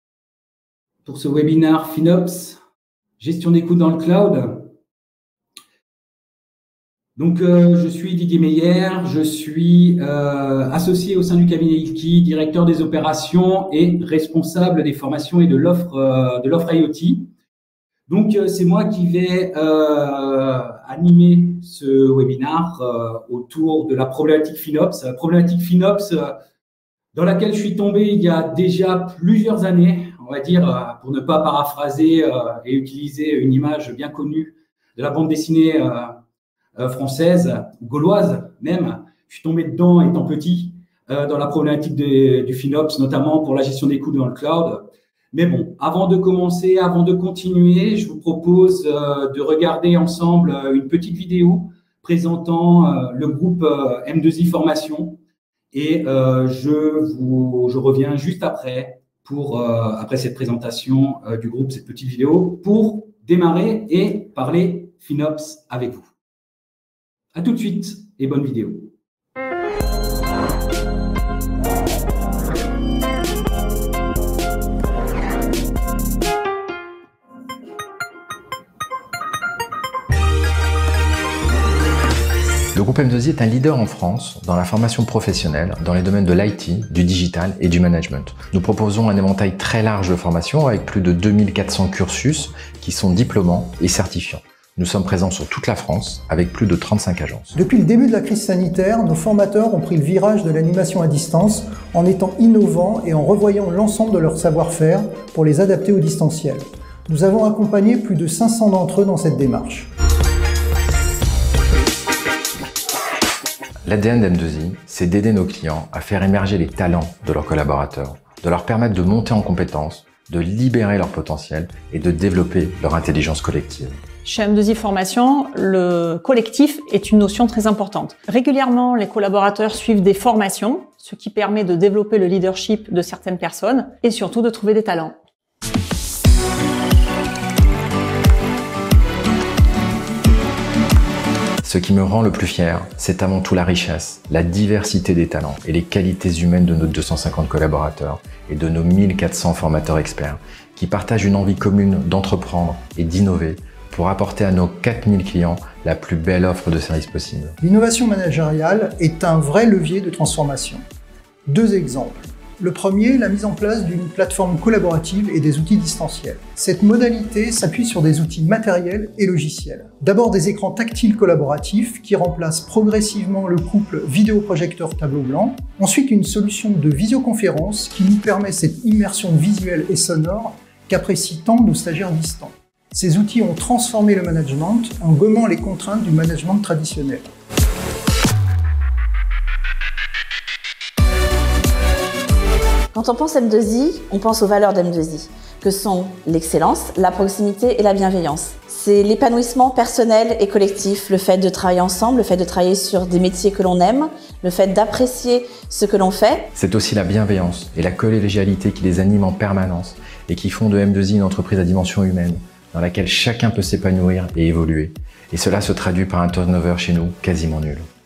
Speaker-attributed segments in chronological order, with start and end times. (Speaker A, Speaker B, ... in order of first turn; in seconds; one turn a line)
Speaker A: 1.0-2.6
Speaker A: 3.2-4.7
Speaker A: 7.2-17.3
Speaker A: 18.1-26.4
Speaker A: 27.1-36.1
Speaker A: 36.8-55.2
Speaker A: 55.7-66.1
Speaker A: 67.3-68.9
Speaker B: 82.7-97.5
Speaker C: 97.5-109.9
Speaker B: 113.8-124.0
Speaker D: 124.2-135.2
Speaker B: 141.6-157.6
Speaker C: 157.6-160.8
Speaker C: 161.5-187.3
Speaker E: 192.9-206.5
Speaker B: 206.5-217.8